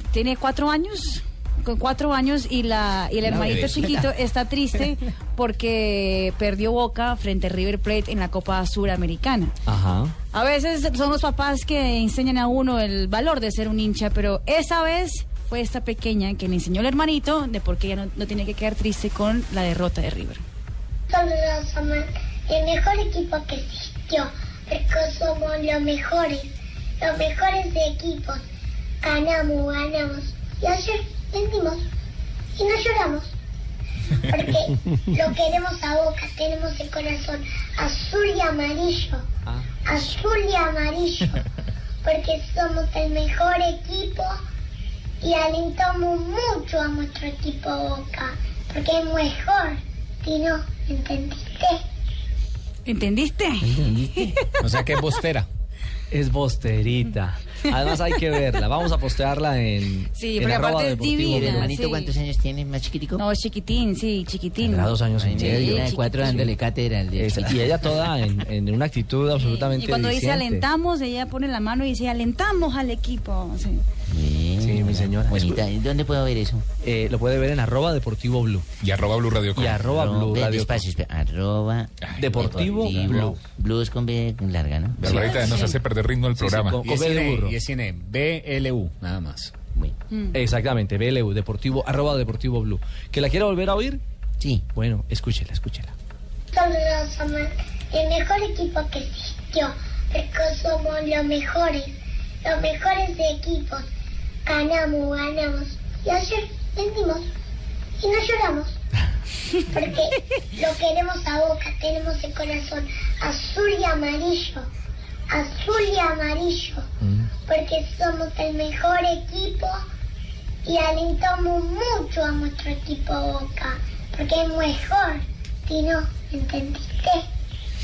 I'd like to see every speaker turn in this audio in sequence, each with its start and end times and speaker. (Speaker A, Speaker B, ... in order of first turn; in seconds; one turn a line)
Speaker A: 0.1-9.5
Speaker B: 3.3-4.0
Speaker C: 3.3-4.0
Speaker C: 9.7-10.1
Speaker A: 10.3-20.4
Speaker D: 21.1-28.4
Speaker D: 29.0-31.9
Speaker D: 32.5-33.3
Speaker D: 34.1-39.2
Speaker D: 39.8-41.4
Speaker D: 42.0-44.4
Speaker D: 45.2-51.8
Speaker A: 52.9-54.7
Speaker B: 53.6-54.3
Speaker E: 54.6-55.5
Speaker C: 56.1-61.7
Speaker A: 60.1-62.1
Speaker B: 61.2-63.2
Speaker A: 63.2-66.5
Speaker C: 64.6-65.9
Speaker B: 65.1-68.1
Speaker C: 67.2-70.7
Speaker A: 69.3-73.8
Speaker B: 74.1-76.6
Speaker C: 74.6-75.6
Speaker C: 76.8-78.7
Speaker F: 78.8-79.8
Speaker C: 79.5-80.8
Speaker B: 79.7-85.2
Speaker F: 82.0-82.5
Speaker C: 82.2-83.4
Speaker F: 85.0-86.8
Speaker C: 85.0-85.7
Speaker A: 85.2-85.8
Speaker C: 86.3-87.6
Speaker E: 86.8-89.5
Speaker C: 90.3-94.0
Speaker C: 94.7-95.9
Speaker D: 96.5-103.9
Speaker D: 104.5-107.3
Speaker D: 108.0-108.8
Speaker D: 109.7-114.7
Speaker D: 115.3-116.8
Speaker C: 117.0-117.3
Speaker D: 117.5-119.8
Speaker D: 120.6-127.2